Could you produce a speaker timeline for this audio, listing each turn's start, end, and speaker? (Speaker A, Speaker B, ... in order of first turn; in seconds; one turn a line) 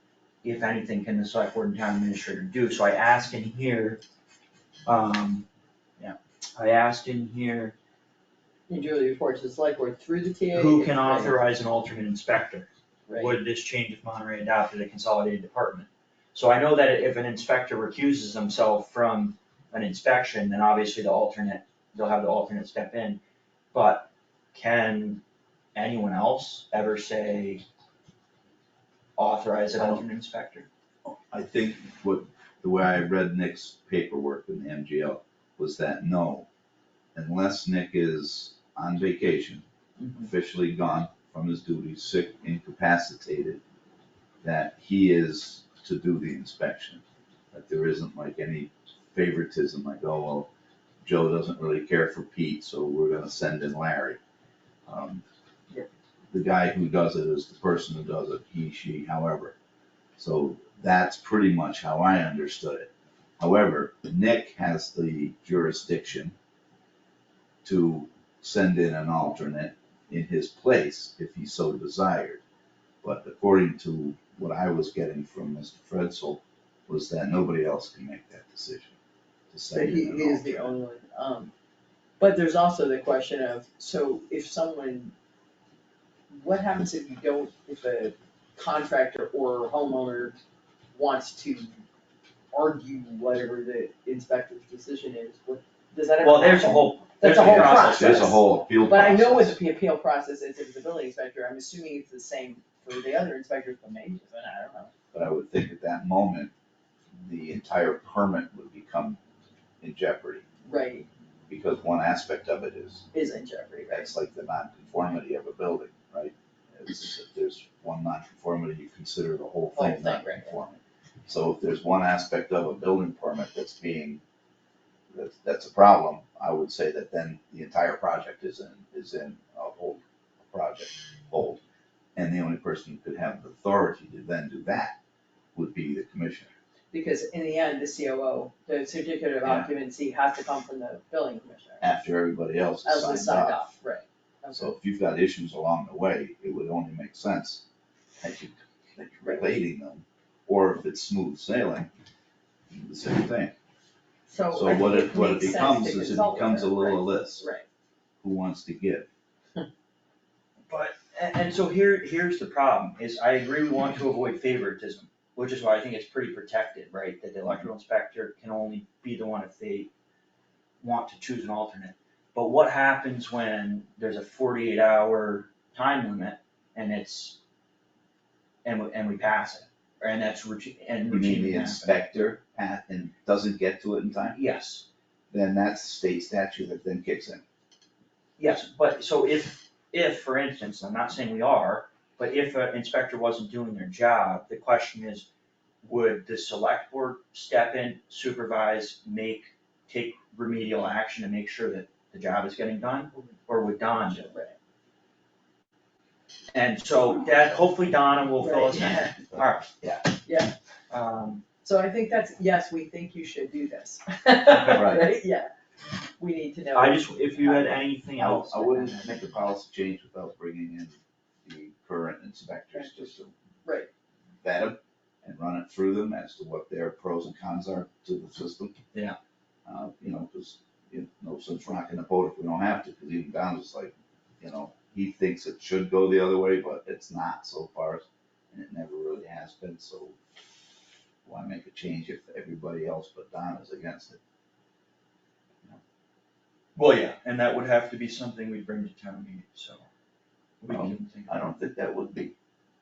Speaker A: 0.4-4.0
Speaker A: 4.8-5.5
Speaker A: 6.0-7.7
Speaker B: 8.7-11.3
Speaker A: 10.5-23.2
Speaker B: 13.1-13.3
Speaker A: 23.7-25.2
Speaker A: 25.7-27.6
Speaker A: 29.2-30.7
Speaker C: 31.1-36.5
Speaker C: 37.1-39.6
Speaker A: 40.0-40.2
Speaker C: 40.1-43.6
Speaker C: 44.4-50.5
Speaker C: 51.0-54.2
Speaker C: 54.9-55.2
Speaker C: 56.3-59.5
Speaker C: 60.2-66.3
Speaker C: 67.6-72.4
Speaker C: 73.0-78.9
Speaker C: 79.5-80.7
Speaker B: 79.7-81.5
Speaker B: 82.2-85.1
Speaker B: 86.3-90.4
Speaker B: 90.9-91.8
Speaker B: 92.5-104.9
Speaker A: 96.2-98.4
Speaker C: 97.3-99.6
Speaker C: 105.1-106.5
Speaker C: 107.2-109.2
Speaker C: 109.8-110.4
Speaker B: 110.6-111.1
Speaker C: 111.5-113.0
Speaker B: 113.1-114.1
Speaker C: 113.9-124.2
Speaker B: 119.7-120.5
Speaker C: 125.1-131.6
Speaker C: 132.2-134.9
Speaker C: 135.5-136.5
Speaker B: 136.9-142.0
Speaker C: 141.8-143.6
Speaker B: 142.8-144.7
Speaker C: 144.5-147.6
Speaker C: 148.2-151.9
Speaker C: 152.7-153.5
Speaker B: 154.3-157.6
Speaker C: 154.5-157.4
Speaker C: 158.2-159.1
Speaker A: 160.7-169.9
Speaker C: 167.4-167.7
Speaker A: 170.8-177.4
Speaker A: 178.6-181.9
Speaker C: 181.1-184.4
Speaker A: 184.3-184.8
Speaker C: 185.3-187.4
Speaker A: 188.4-195.3
Speaker A: 195.8-204.3
Speaker B: 203.9-204.6
Speaker A: 206.5-209.7
Speaker B: 208.4-209.1
Speaker B: 210.2-210.5
Speaker A: 210.9-211.4
Speaker B: 211.6-215.5
Speaker A: 214.4-214.9
Speaker C: 214.7-215.1
Speaker B: 216.2-217.8
Speaker A: 216.7-219.3
Speaker C: 218.2-223.3
Speaker B: 222.7-223.1
Speaker C: 224.4-228.8
Speaker C: 229.7-240.2
Speaker C: 241.2-244.2
Speaker A: 246.7-249.8
Speaker A: 250.6-251.3
Speaker C: 250.7-252.3